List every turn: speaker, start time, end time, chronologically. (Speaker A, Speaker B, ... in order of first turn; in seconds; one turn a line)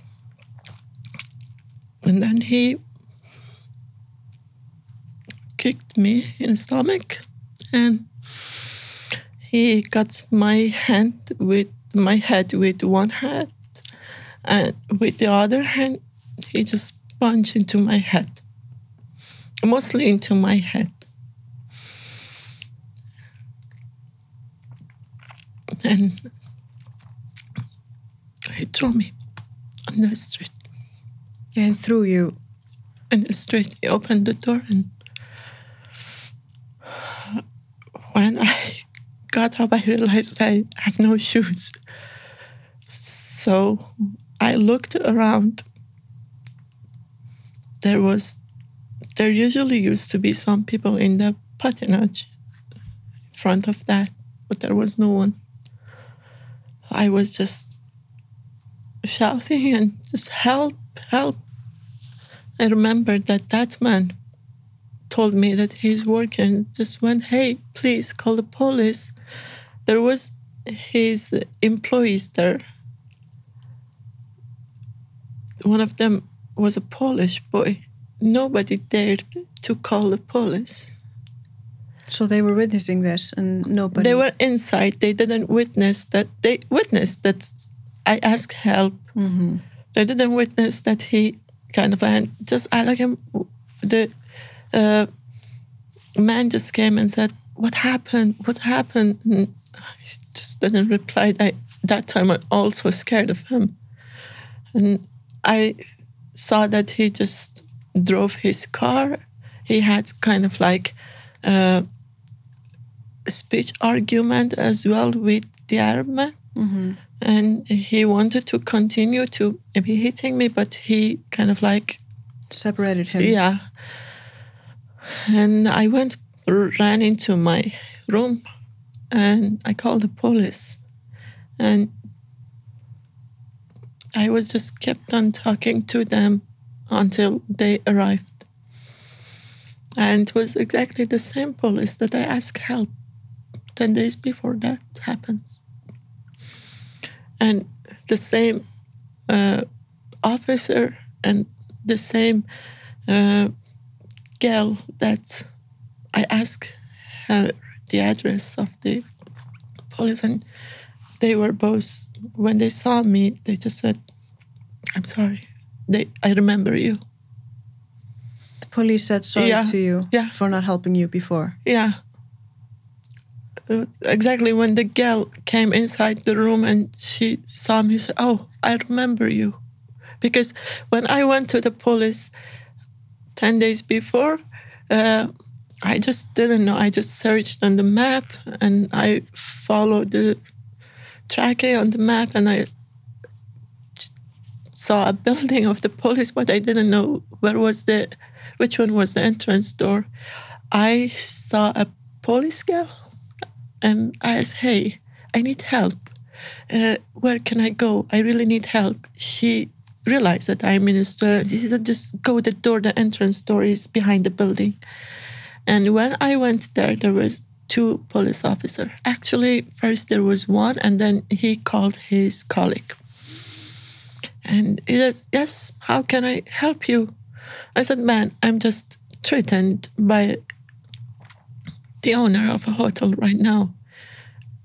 Speaker A: 2.0-2.8
Speaker A: 5.5-8.5
Speaker A: 9.5-13.6
Speaker A: 14.4-18.4
Speaker A: 19.6-21.0
Speaker A: 25.8-26.3
Speaker A: 28.5-29.1
Speaker A: 29.9-30.5
Speaker B: 31.5-32.4
Speaker A: 33.1-34.9
Speaker A: 38.1-41.8
Speaker A: 42.9-45.6
Speaker A: 47.8-48.4
Speaker A: 49.2-52.3
Speaker A: 53.3-55.4
Speaker A: 56.9-57.8
Speaker A: 59.0-61.4
Speaker A: 62.6-64.2
Speaker A: 65.1-69.1
Speaker A: 69.9-72.6
Speaker A: 75.7-80.9
Speaker B: 82.1-84.3
Speaker A: 84.0-89.0
Speaker B: 89.2-89.6
Speaker A: 89.9-94.1
Speaker A: 94.7-95.1
Speaker A: 96.2-103.8
Speaker A: 104.8-105.8
Speaker A: 106.3-111.8
Speaker A: 113.3-116.4
Speaker B: 116.6-117.0
Speaker A: 117.2-122.0
Speaker B: 122.5-123.4
Speaker A: 123.2-123.6
Speaker A: 125.3-128.4
Speaker A: 129.1-130.8
Speaker A: 131.6-131.9
Speaker A: 134.2-138.4
Speaker A: 140.0-142.9
Speaker A: 143.8-145.6
Speaker A: 147.4-148.7
Speaker A: 149.3-149.6
Speaker A: 150.2-152.4
Speaker A: 153.1-153.5
Speaker A: 154.4-155.5
Speaker A: 156.1-159.1
Speaker A: 159.9-160.4
Speaker A: 161.2-164.0
Speaker A: 165.0-167.0
Speaker B: 168.6-171.6
Speaker A: 169.4-170.3
Speaker A: 171.7-172.0
Speaker A: 173.7-179.6
Speaker A: 180.2-182.3
Speaker A: 183.4-184.4
Speaker A: 184.9-185.3
Speaker A: 185.8-190.4
Speaker A: 191.3-192.7
Speaker A: 194.7-200.1
Speaker A: 200.7-203.0
Speaker A: 203.8-206.1
Speaker A: 206.7-214.8
Speaker A: 215.7-223.0
Speaker A: 224.4-227.2
Speaker A: 227.8-230.4
Speaker A: 232.0-233.7